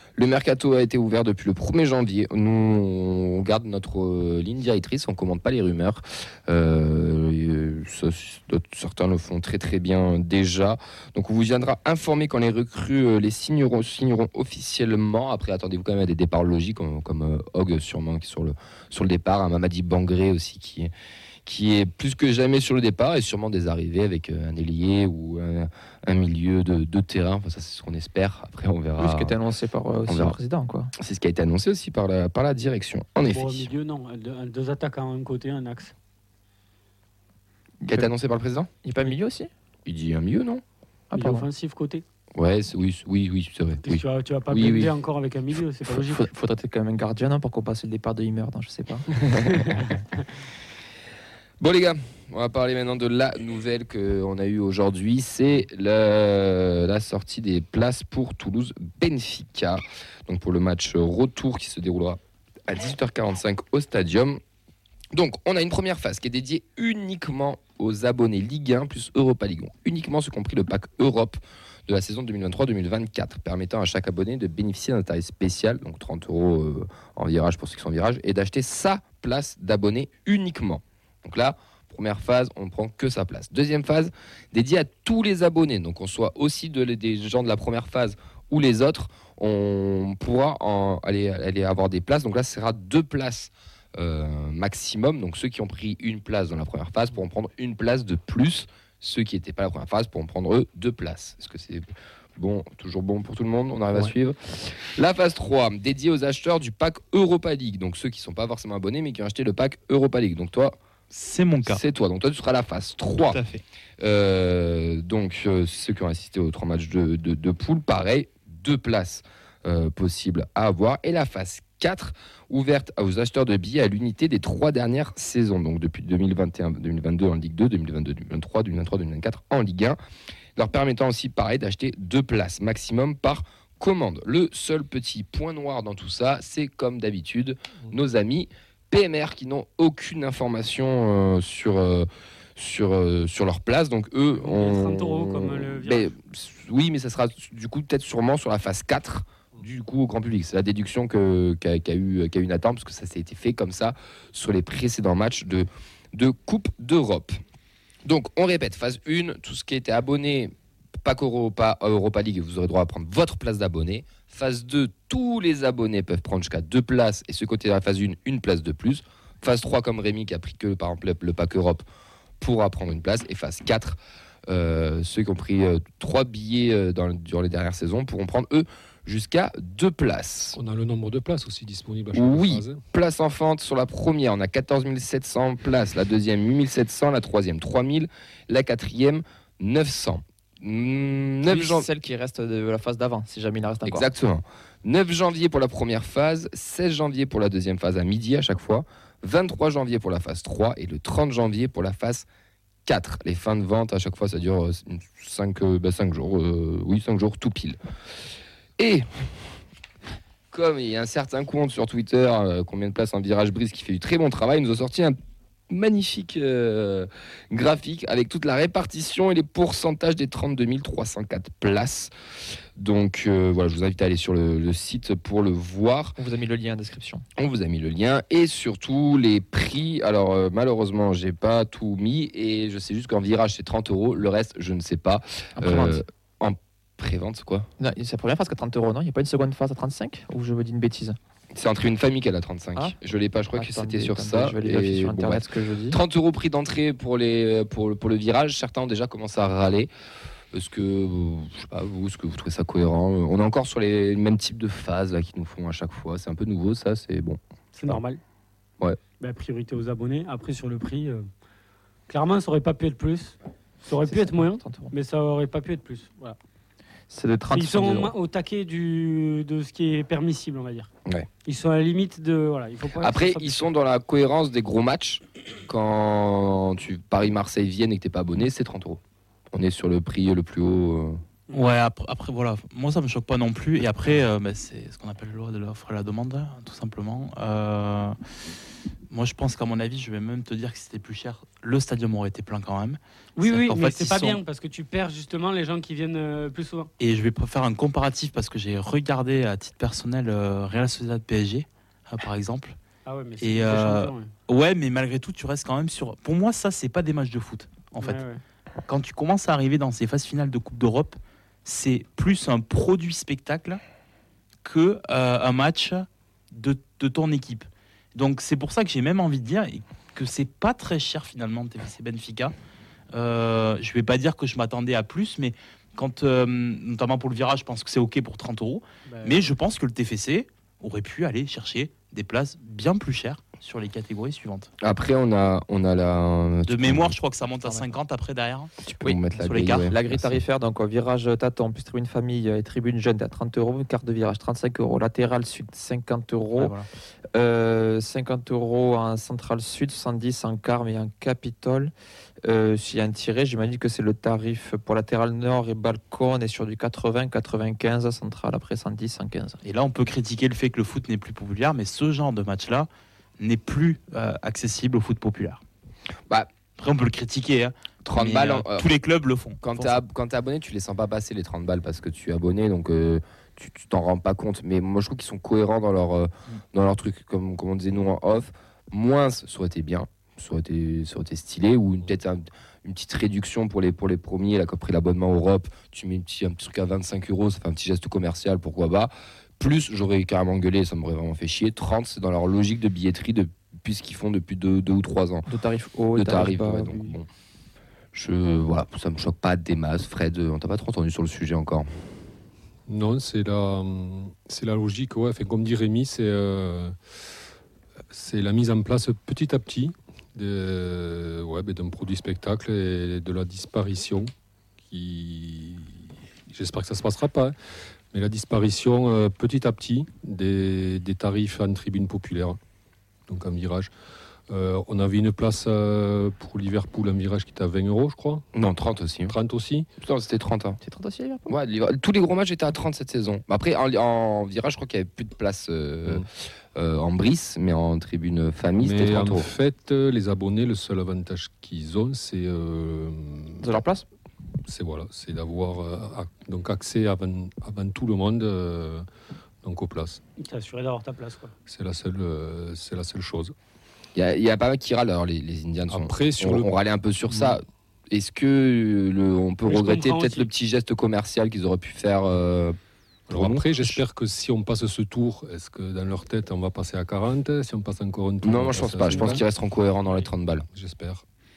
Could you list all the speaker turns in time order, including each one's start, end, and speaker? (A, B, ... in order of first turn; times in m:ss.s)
0:00.2-0:20.9 A
0:21.5-0:29.4 A
0:29.0-0:30.9 B
0:30.1-0:30.4 A
0:31.0-0:33.7 A
0:33.2-0:35.9 C
0:37.8-0:38.1 B
0:37.9-0:38.7 A
0:38.8-0:39.5 B
0:39.9-0:40.6 A
0:41.1-0:41.5 B
0:41.1-0:42.0 C
0:42.4-0:45.0 A
0:43.8-0:46.3 C
0:45.9-0:49.8 B
0:51.6-1:04.4 A
1:05.1-1:41.8 A
1:42.4-1:50.8 A
1:51.1-1:51.8 D
1:51.7-1:53.4 A
1:53.3-1:53.6 D
1:54.0-2:10.0 A
2:10.6-2:37.4 A
2:24.3-2:26.1 C
2:38.0-2:51.8 A
2:52.4-3:00.6 A
3:00.5-3:02.8 E
3:02.1-3:11.9 A
3:11.5-3:14.1 B
3:13.9-3:22.3 A
3:22.9-3:27.8 A
3:28.8-3:29.0 A
3:30.5-3:35.2 A
3:35.7-3:42.1 A
3:42.8-3:46.2 A
3:46.2-3:47.2 B
3:47.4-3:57.7 A
3:55.6-3:56.0 B
3:57.8-4:01.2 B
4:01.5-4:09.9 A
4:03.5-4:06.0 B
4:10.5-4:18.0 A
4:17.7-4:18.2 C
4:19.2-4:21.2 C
4:22.1-4:26.4 C
4:24.0-4:24.9 B
4:27.1-4:28.2 B
4:27.5-4:30.9 C
4:31.4-4:33.6 C
4:33.0-4:39.0 A
4:39.5-4:41.2 A
4:41.5-4:48.2 D
4:49.1-4:54.4 D
4:53.4-4:56.9 C
4:57.0-5:02.8 D
5:03.0-5:04.3 C
5:03.4-5:08.2 D
5:08.0-5:08.4 C
5:08.9-5:13.8 D
5:14.6-5:22.5 D
5:23.1-5:34.7 D
5:29.1-5:29.5 C
5:34.8-5:37.2 A
5:36.7-5:38.7 D
5:38.8-5:40.4 A
5:39.0-5:46.8 B
5:39.3-5:39.9 D
5:46.6-5:46.9 D
5:47.3-5:51.9 B
5:52.4-5:59.6 B
5:59.6-6:05.6 D
6:06.8-6:10.0 D
6:08.0-6:08.9 A
6:09.6-6:35.5 A
6:35.5-6:37.1 B
6:36.2-6:37.3 A
6:38.1-6:41.9 A
6:42.9-6:47.0 E
6:48.1-6:54.3 E
6:54.9-6:55.9 E
6:56.5-6:57.5 E
6:58.1-7:02.6 E
7:03.3-7:03.9 E
7:04.5-7:08.5 E
7:08.5-7:09.4 A
7:09.3-7:09.9 E
7:10.0-7:10.8 A
7:10.8-7:11.5 B
7:11.5-7:19.5 A
7:18.8-7:23.7 E
7:23.6-7:24.1 B
7:24.7-7:29.0 E
7:29.6-7:30.2 E
7:30.4-7:31.5 C
7:31.7-7:33.5 E
7:34.2-7:42.8 A
7:35.9-7:36.7 E
7:37.3-7:37.6 E
7:39.6-7:40.5 C
7:43.3-7:44.0 A
7:43.3-7:49.4 E
7:48.4-7:50.6 A
7:49.1-7:49.4 C
7:50.7-7:51.2 E